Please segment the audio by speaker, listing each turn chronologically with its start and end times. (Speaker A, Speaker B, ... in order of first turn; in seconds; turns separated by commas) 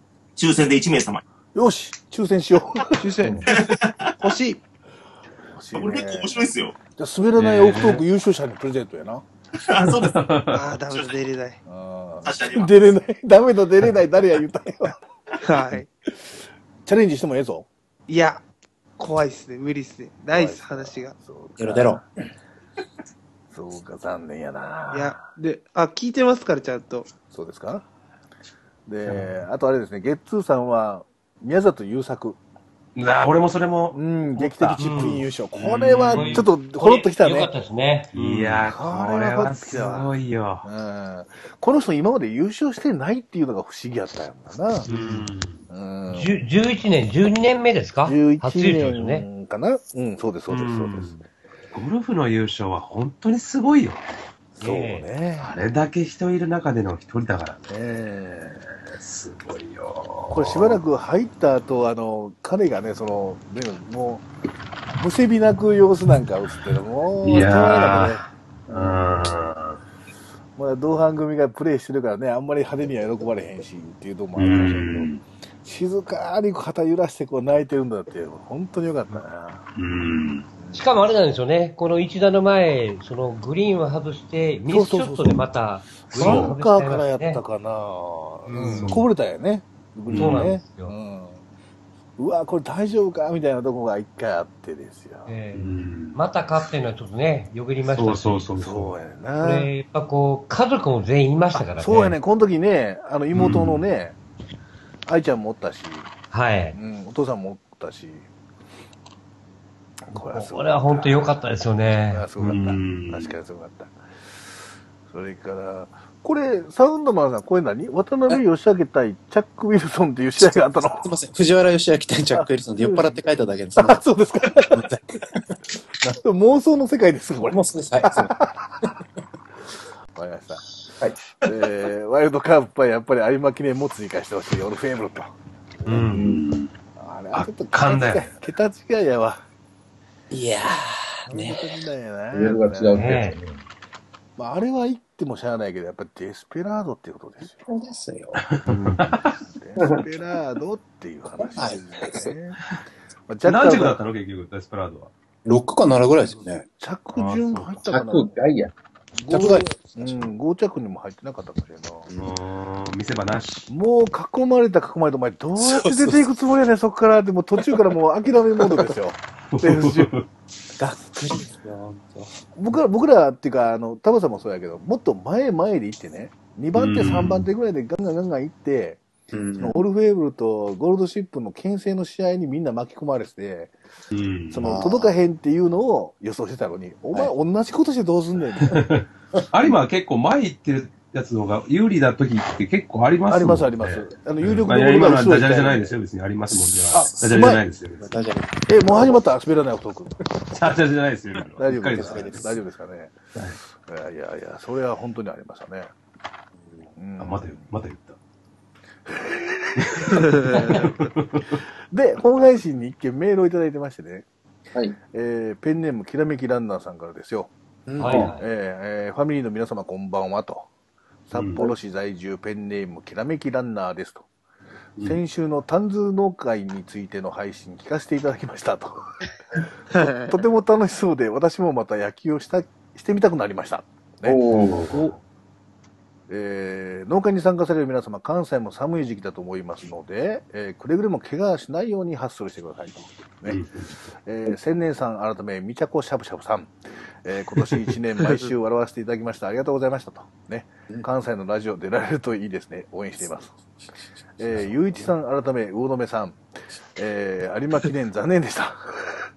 Speaker A: 0.3-1.2, Speaker B: 1.5-3.0, Speaker C: 2.9-4.6, Speaker A: 3.5-4.1, Speaker B: 5.5-6.4, Speaker A: 5.7-6.7, Speaker B: 7.0-9.2, Speaker D: 7.3-8.0, Speaker A: 9.6-10.3, Speaker D: 9.9-10.6, Speaker C: 10.5-11.6, Speaker B: 11.7-15.0, Speaker A: 12.2-12.8, Speaker C: 15.4-15.9, Speaker B: 16.8-17.7, Speaker C: 18.1-18.4, Speaker C: 19.0-21.1, Speaker B: 20.3-22.0, Speaker E: 21.6-22.0, Speaker B: 23.5-25.2, Speaker C: 24.9-27.1, Speaker B: 27.3-27.8, Speaker B: 28.9-32.4, Speaker D: 33.0-36.4, Speaker B: 33.9-37.5, Speaker F: 34.7-38.4, Speaker D: 38.1-40.6, Speaker B: 38.4-40.1, Speaker B: 40.6-44.9, Speaker D: 44.9-45.6, Speaker F: 44.9-45.3, Speaker B: 45.7-46.3, Speaker F: 46.1-49.3, Speaker B: 48.0-51.2, Speaker D: 50.5-51.2, Speaker D: 51.7-54.1, Speaker B: 54.5-55.6, Speaker F: 54.6-55.0, Speaker D: 55.4-57.7, Speaker B: 57.7-58.7, Speaker D: 58.9-60.8, Speaker B: 60.3-64.3, Speaker B: 64.9-69.1, Speaker D: 67.2-69.8, Speaker B: 70.5-75.1, Speaker D: 74.3-75.2, Speaker B: 75.6-79.6, Speaker D: 79.8-80.5, Speaker B: 80.6-80.8, Speaker F: 80.7-87.4, Speaker B: 84.7-85.4, Speaker B: 86.1-91.4, Speaker D: 86.1-86.6, Speaker F: 88.5-89.0, Speaker D: 88.5-89.0, Speaker D: 90.1-90.6, Speaker F: 90.2-90.9, Speaker B: 92.2-95.3, Speaker F: 95.2-98.4, Speaker D: 95.5-96.2, Speaker D: 97.8-99.0, Speaker B: 98.6-99.7, Speaker F: 99.4-102.1, Speaker B: 101.6-104.2, Speaker D: 103.3-103.8, Speaker B: 105.0-106.1, Speaker F: 106.3-106.8, Speaker B: 106.7-108.3, Speaker B: 110.1-111.3, Speaker F: 110.3-112.3, Speaker B: 112.1-114.0, Speaker D: 112.4-113.3, Speaker B: 115.1-121.1, Speaker E: 120.4-124.0, Speaker B: 122.3-123.2, Speaker B: 123.7-125.0, Speaker E: 124.7-126.2, Speaker B: 126.1-128.9, Speaker E: 127.4-128.3, Speaker B: 130.1-130.7, Speaker B: 131.4-135.3, Speaker F: 135.9-136.2, Speaker D: 135.9-136.7, Speaker G: 136.1-136.4, Speaker B: 137.0-139.4, Speaker D: 137.3-138.3, Speaker E: 140.3-141.5, Speaker B: 141.2-143.2, Speaker G: 142.3-143.6, Speaker F: 142.9-143.4, Speaker B: 144.4-147.7, Speaker E: 147.6-148.4, Speaker D: 148.4-149.4, Speaker B: 149.3-152.6, Speaker E: 151.4-152.3, Speaker B: 153.3-154.0, Speaker D: 153.4-155.1, Speaker E: 155.4-156.6, Speaker B: 156.6-158.4, Speaker D: 157.2-157.8, Speaker G: 157.8-158.7, Speaker B: 159.2-162.1, Speaker E: 159.3-160.2, Speaker D: 162.1-163.7, Speaker B: 163.7-170.1, Speaker D: 169.5-170.3, Speaker B: 170.8-171.5, Speaker E: 171.5-172.2, Speaker B: 172.5-179.0, Speaker D: 176.8-177.5, Speaker E: 179.3-179.8, Speaker B: 179.6-183.7, Speaker D: 184.1-184.7, Speaker B: 184.5-189.0, Speaker E: 184.6-185.1, Speaker D: 188.7-198.1, Speaker B: 193.3-195.9, Speaker B: 196.9-197.6, Speaker E: 196.9-197.3, Speaker E: 198.0-199.2, Speaker B: 198.7-200.2, Speaker D: 200.4-202.5, Speaker B: 201.6-203.2, Speaker E: 201.9-202.5, Speaker B: 203.8-205.9, Speaker B: 206.9-207.7, Speaker D: 207.2-208.2, Speaker B: 209.1-210.9, Speaker D: 209.8-211.6, Speaker B: 211.9-214.2, Speaker B: 215.1-220.7, Speaker E: 217.8-218.3, Speaker F: 218.0-218.4, Speaker B: 221.3-224.2, Speaker D: 221.3-221.7, Speaker B: 225.0-229.1, Speaker C: 230.0-230.3, Speaker B: 230.1-235.1, Speaker G: 234.2-235.1, Speaker D: 234.7-235.0, Speaker B: 236.3-243.6, Speaker D: 243.5-243.9, Speaker B: 244.2-246.7, Speaker B: 247.2-253.6, Speaker B: 254.4-256.4, Speaker B: 256.9-259.2